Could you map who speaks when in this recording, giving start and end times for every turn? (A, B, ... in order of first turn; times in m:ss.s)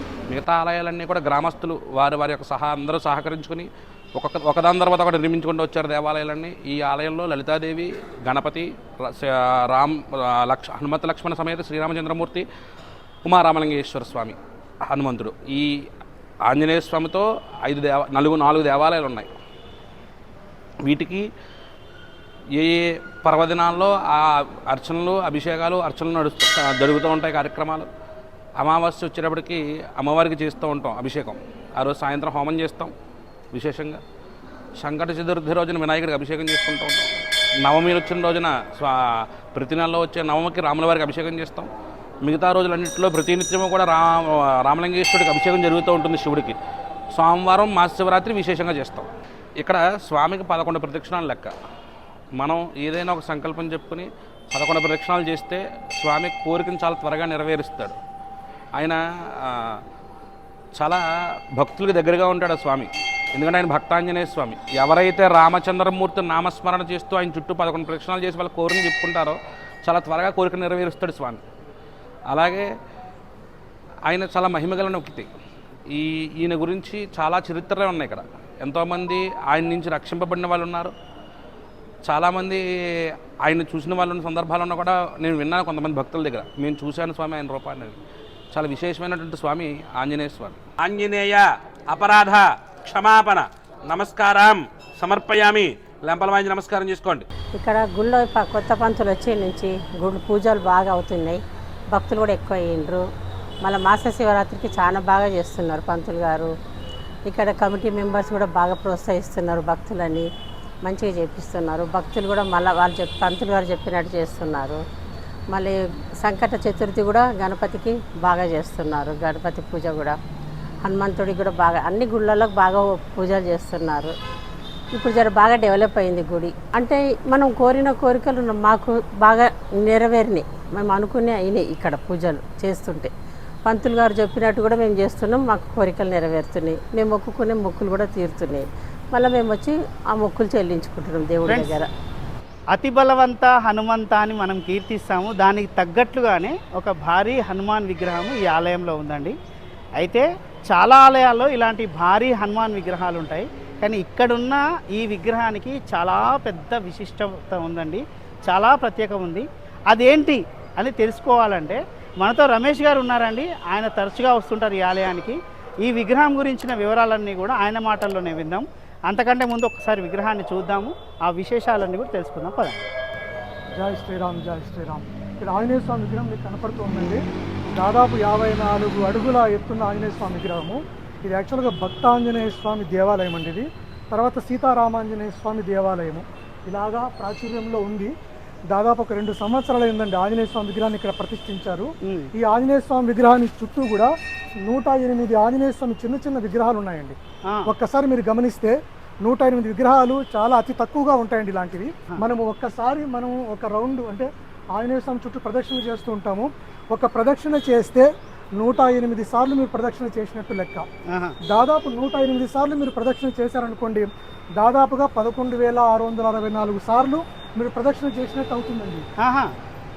0:00.3-0:12.4 A
0:13.2-0:14.4 A
0:14.9-0:15.8 A
0:16.5-0:19.3 A
0:20.8-0:21.3 A
0:22.6-0:27.9 A
0:28.6-0:32.9 A
0:33.5-0:34.0 A
0:34.8-0:37.1 A
0:37.6-0:41.7 A
0:42.2-0:46.6 A
0:47.1-0:49.1 A
0:49.6-0:51.5 A
0:52.4-0:58.0 A
0:58.8-0:59.8 A
1:00.8-1:01.0 A
1:01.6-1:11.4 A
1:12.3-1:12.7 A
1:14.1-1:15.3 A
1:15.9-1:20.9 A
1:22.1-1:28.0 A
1:28.5-1:37.3 A
1:37.6-1:43.0 B
1:43.6-1:46.5 B
1:47.3-1:50.3 B
1:50.8-1:54.8 B
1:55.5-2:00.2 B
2:00.8-2:04.1 B
2:04.9-2:13.1 B
2:13.7-2:21.9 B
2:22.7-2:29.4 C
2:30.0-2:52.8 C
2:53.8-2:57.2 D
2:57.8-3:08.1 D
3:08.7-3:14.1 D
3:12.0-3:12.3 C
3:14.7-3:17.2 D
3:17.7-3:30.9 D
3:31.1-3:31.4 C
3:31.5-3:39.0 D
3:39.2-3:39.5 C